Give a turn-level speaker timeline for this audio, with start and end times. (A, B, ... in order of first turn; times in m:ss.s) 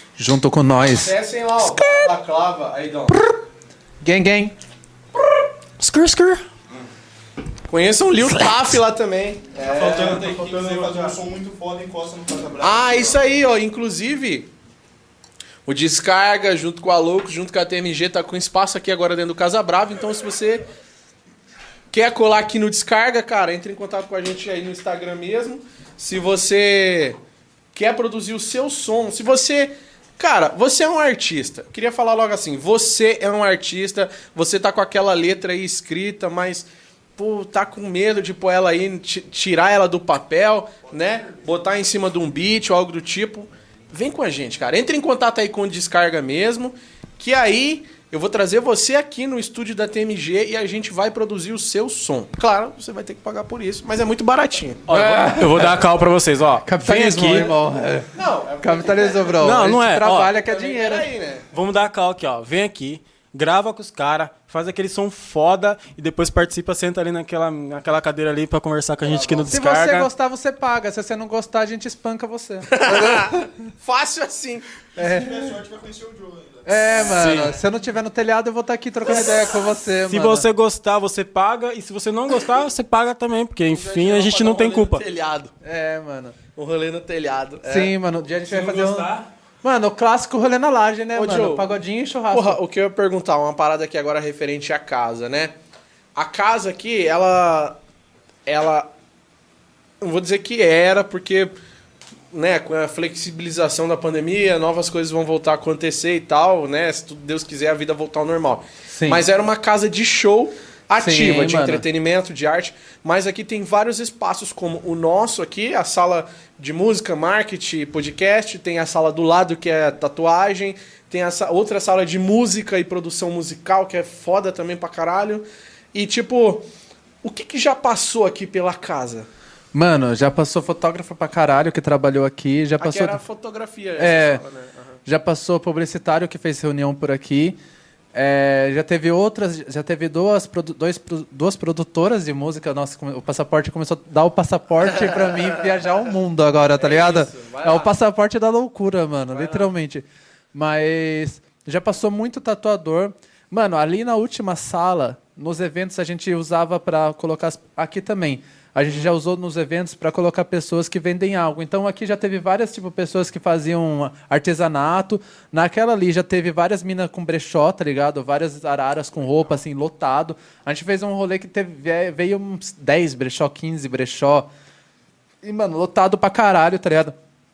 0:00.2-0:01.1 A
0:00.8-0:03.2 B
0:04.0-0:04.5 A
0:05.8-0:06.5 C
0:07.7-0:11.1 B
0:09.6-0:13.2 D
0:09.7-0:11.0 C
0:12.6-0:14.5 B
0:15.7-0:20.6 B
0:21.9-0:27.2 B
0:27.8-0:54.9 B
0:40.9-0:41.6 D
0:54.9-0:57.6 C
0:54.9-0:55.8 A
0:56.6-1:01.1 A
0:58.2-0:59.6 B
0:59.4-1:00.3 C
1:00.3-1:01.5 B
1:01.5-1:10.1 C
1:09.1-1:09.5 B
1:09.5-1:13.5 A
1:12.7-1:14.7 B
1:15.0-1:16.9 D
1:15.0-1:15.6 A
1:16.7-1:20.5 A
1:17.0-1:17.6 C
1:20.0-1:25.0 C
1:23.7-1:25.5 B
1:25.6-1:26.4 A
1:26.6-1:27.9 B
1:27.6-1:29.1 A
1:28.5-1:29.3 C
1:29.6-1:32.6 A
1:31.2-1:31.7 B
1:32.3-1:35.6 B
1:36.2-1:37.8 B
1:38.5-1:38.9 B
1:40.0-1:41.5 B
1:42.3-2:06.6 B
1:48.9-1:49.2 A
1:51.0-1:51.8 A
2:07.2-2:09.3 B
2:09.7-2:13.2 A
2:12.8-2:15.0 B
2:14.0-2:14.4 A
2:15.1-2:17.6 A
2:18.2-2:54.5 A
2:25.0-2:25.6 B
2:26.8-2:27.9 B
2:29.3-2:29.7 B
2:55.4-2:57.2 A